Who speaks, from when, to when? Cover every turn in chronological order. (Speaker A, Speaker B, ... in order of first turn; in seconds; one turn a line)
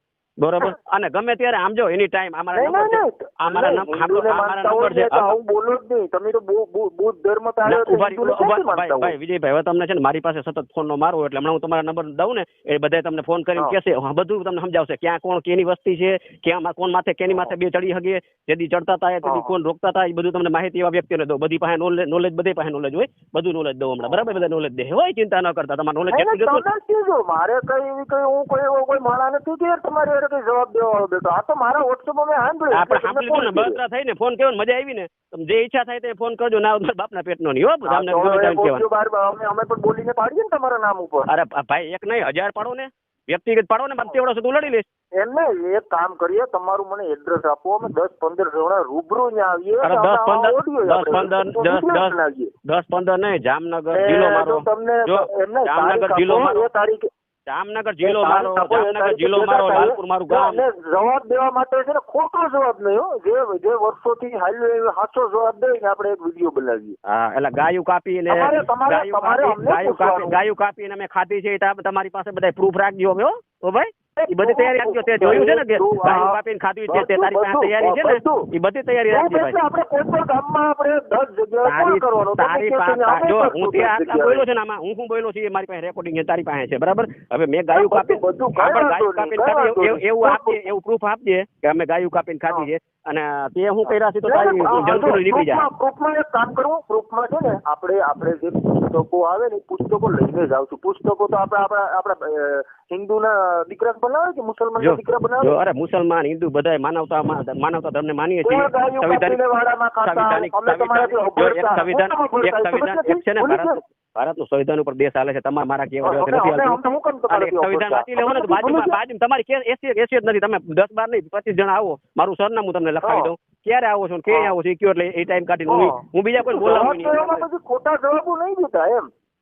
Speaker A: 0.4-5.3
Speaker B: 2.5-9.1
Speaker A: 7.7-26.6
Speaker B: 19.2-19.5
Speaker B: 26.1-33.8
Speaker A: 32.7-38.8
Speaker B: 37.9-41.3
Speaker A: 41.3-44.9
Speaker B: 45.2-52.5
Speaker A: 49.8-56.7
Speaker B: 53.9-57.1
Speaker A: 57.5-60.6
Speaker B: 58.0-67.0
Speaker A: 67.0-79.6
Speaker B: 68.3-70.4
Speaker B: 74.2-78.5
Speaker B: 79.1-84.4
Speaker A: 81.6-95.7
Speaker B: 87.7-90.6
Speaker B: 94.2-105.5
Speaker A: 104.8-109.4
Speaker B: 108.4-113.8
Speaker A: 110.0-127.5
Speaker B: 116.0-119.0
Speaker B: 123.0-123.3
Speaker B: 125.7-129.1